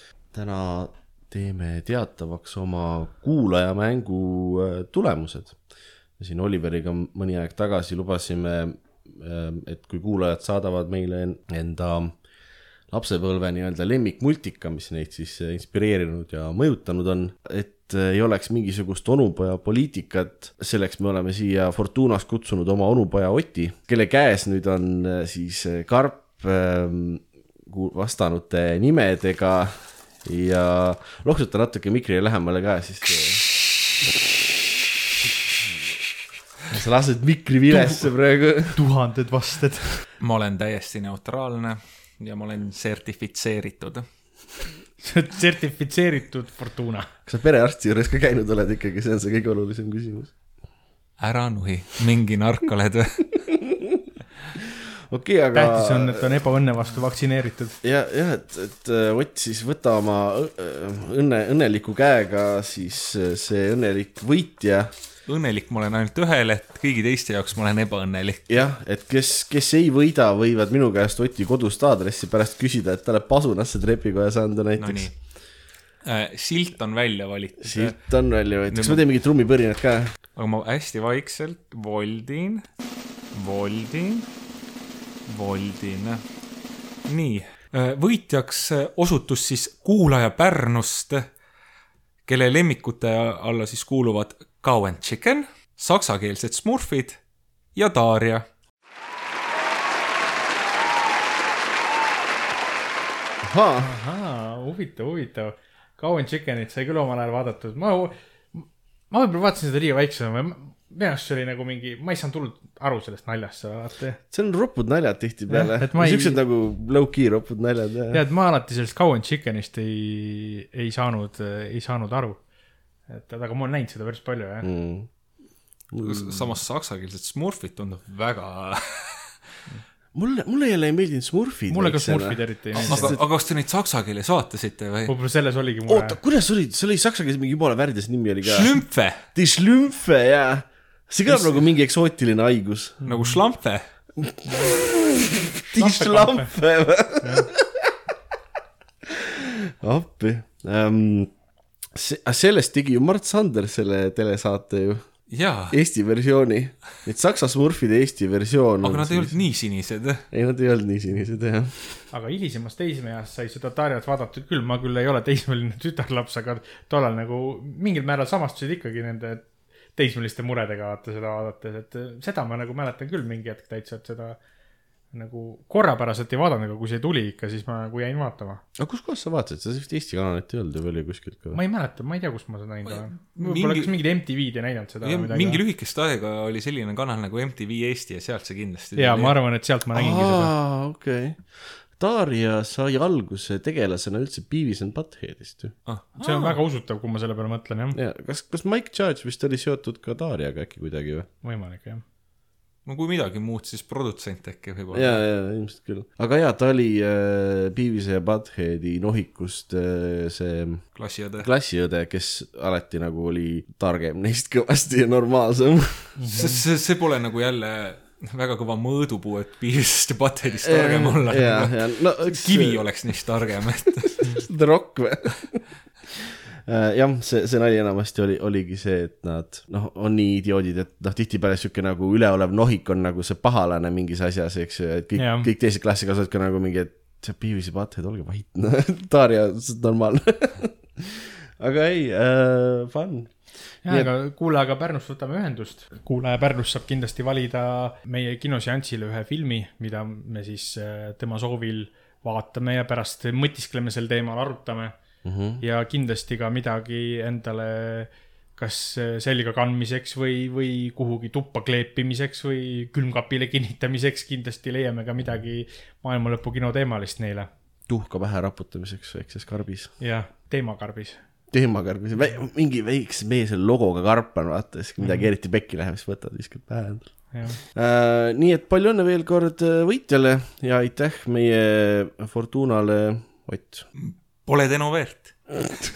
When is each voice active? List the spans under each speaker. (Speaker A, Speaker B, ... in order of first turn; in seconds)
Speaker A: 0.3-5.6, 6.2-12.1, 12.9-33.4, 36.7-38.8, 47.2-50.3, 53.5-54.0, 55.1-56.4, 57.8-64.9, 68.5-75.1, 77.6-80.1, 103.4-103.9, 114.3-118.2, 124.6-125.1, 125.9-126.5, 130.2-133.2, 135.9-143.0, 144.2-147.9, 149.2-151.3, 151.9-155.0, 155.7-159.4, 160.3-162.0, 178.8-181.6, 189.9-191.4, 191.9-195.7, 197.9-201.3, 204.9-210.8, 211.4-216.2, 220.6-222.8, 224.2-225.6, 226.7-244.1, 255.2-255.6, 267.9-269.9, 271.5-283.9
Speaker B: 37.7-38.1, 38.8-40.0, 45.0-47.1, 55.5-57.8, 103.8-114.2, 115.5-116.4, 118.1-122.4, 123.1-124.7, 131.7-133.2, 135.1-136.2, 143.0-143.4, 145.7-146.5, 147.2-147.5, 162.1-174.4, 175.1-178.6, 181.5-185.6, 188.9-190.5, 196.2-198.0, 201.4-202.0, 216.2-216.6, 235.2-235.5, 243.8-255.0, 255.6-267.5, 270.0-271.2, 275.0-275.3, 277.3-277.6
Speaker C: 40.2-44.0, 51.2-53.2, 65.2-68.5, 74.8-75.1, 76.0-78.0, 78.7-79.0, 80.3-82.6, 83.3-84.3, 85.2-86.2, 87.1-91.3, 92.2-97.2, 97.7-98.4, 126.0-129.2, 132.7-135.1, 138.4-139.2, 141.3-141.7, 143.0-143.8, 155.3-155.8, 158.8-160.2, 182.8-183.9, 185.0-189.3, 195.8-196.6, 202.8-205.2, 210.9-211.5, 216.3-224.4, 284.0-285.4